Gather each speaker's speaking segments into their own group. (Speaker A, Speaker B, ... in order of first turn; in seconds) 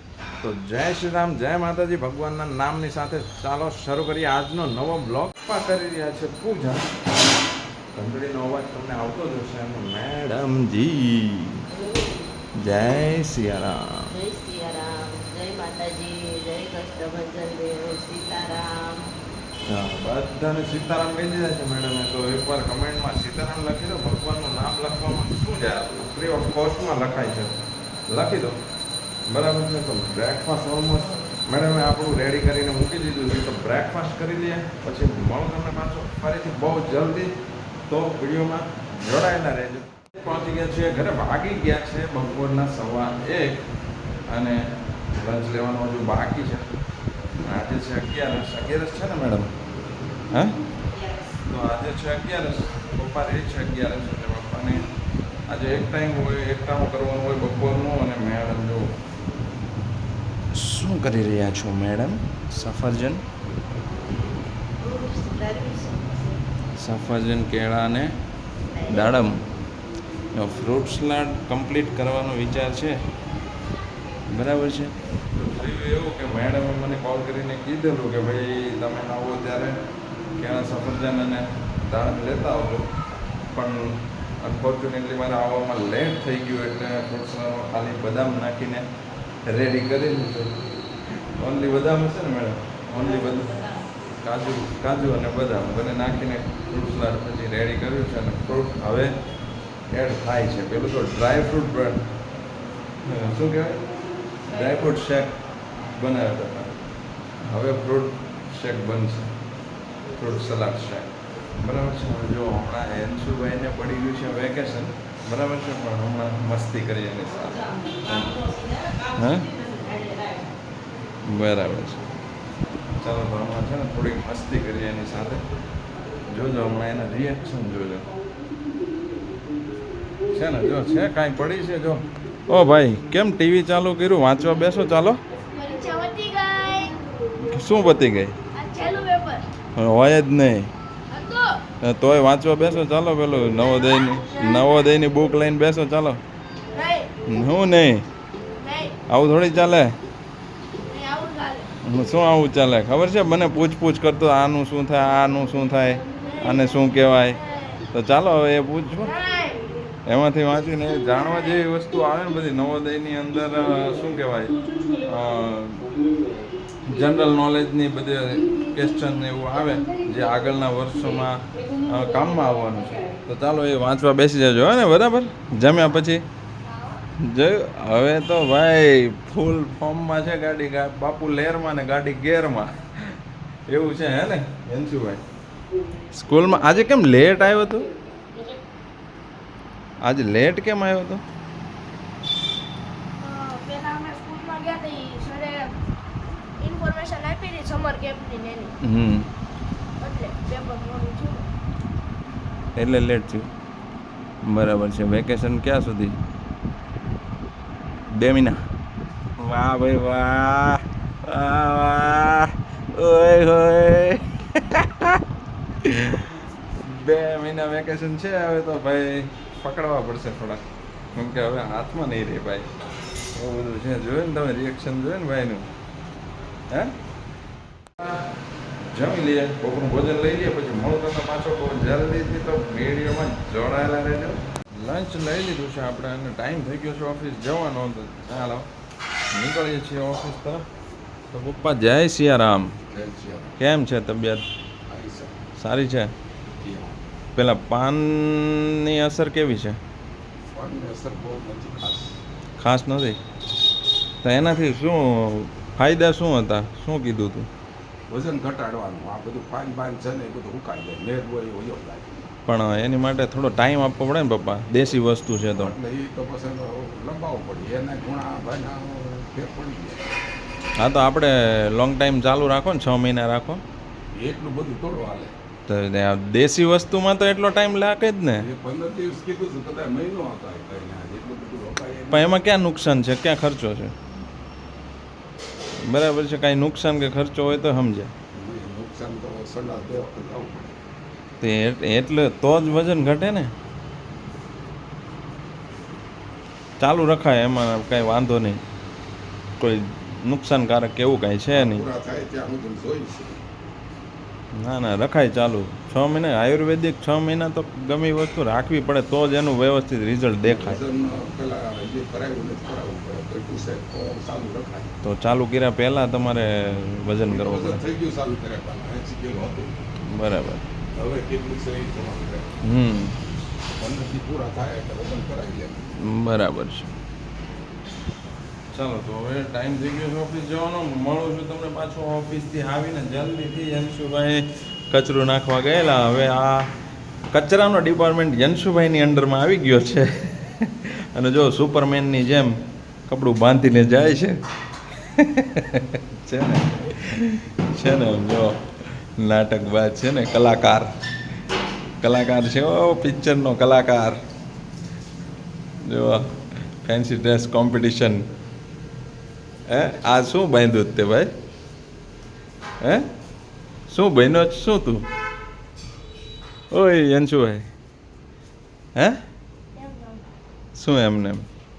Speaker A: 0.4-6.9, 7.9-11.7, 12.6-14.1, 19.7-27.6, 28.1-28.6, 29.3-37.3, 37.9-43.6, 44.3-44.6, 45.1-46.6, 47.4-49.5, 51.5-54.8, 55.5-58.9, 60.5-63.2, 66.8-68.1, 68.9-69.4, 70.3-73.0, 74.3-79.8, 80.4-82.9, 83.5-88.8, 89.5-90.5, 91.4-93.7, 94.2-99.1, 99.9-102.0, 103.0-103.8, 104.5-105.4, 105.9-106.8, 107.4-109.3, 110.2-118.4, 119.1-119.5, 121.2-122.0, 123.0-125.4, 126.3-128.1, 130.3-135.2, 137.4-138.3, 139.8-140.7, 141.8-146.2, 147.2-148.1, 149.1-149.9, 151.8-159.1, 160.1-165.9, 166.8-176.2, 177.2-185.2, 186.1-187.9, 190.0-191.2, 198.8-199.3, 202.8-203.5, 204.4-206.2, 208.1-208.6, 209.4-215.2, 215.8-220.6, 221.1-222.7, 223.3-225.7, 228.9-238.7, 239.3-240.7, 241.3-242.7, 243.6-244.4, 245.6-246.1, 247.3-249.8, 252.6-253.2, 254.2-257.5, 262.5-265.7, 270.8-273.6, 275.7-278.5, 282.1-283.9, 285.8-288.1, 291.4-293.5, 296.8-298.6, 299.6-301.9, 304.6-310.8, 315.0-317.8, 320.1-320.6, 322.6-323.2, 326.0-326.9, 328.7-336.7, 337.3-342.6, 343.1-344.4, 345.1-350.9, 352.0-354.2, 355.8-356.3, 356.8-358.3, 359.7-361.3, 363.9-365.0, 366.7-367.6, 370.7-371.5
Speaker B: 11.7-12.3, 14.1-19.0, 50.9-51.3, 64.8-66.2, 68.8-69.3, 93.0-93.8, 117.5-120.5
Speaker C: 135.5-137.0, 138.5-139.4, 141.1-141.6, 144.3-144.7, 146.7-147.1, 148.6-148.9, 150.8-151.7, 156.2-156.7, 157.4-157.8, 159.0-159.9, 193.2-195.7, 196.6-198.7, 200.0-201.4, 369.8-370.2
Speaker D: 242.9-243.5, 244.9-245.3, 246.6-246.9, 250.5-252.2, 258.1-262.3, 265.5-270.1, 274.1-275.3, 278.4-282.4, 288.3-290.7, 301.5-303.4, 310.4-314.9, 317.3-319.8, 320.9-322.5, 323.7-325.9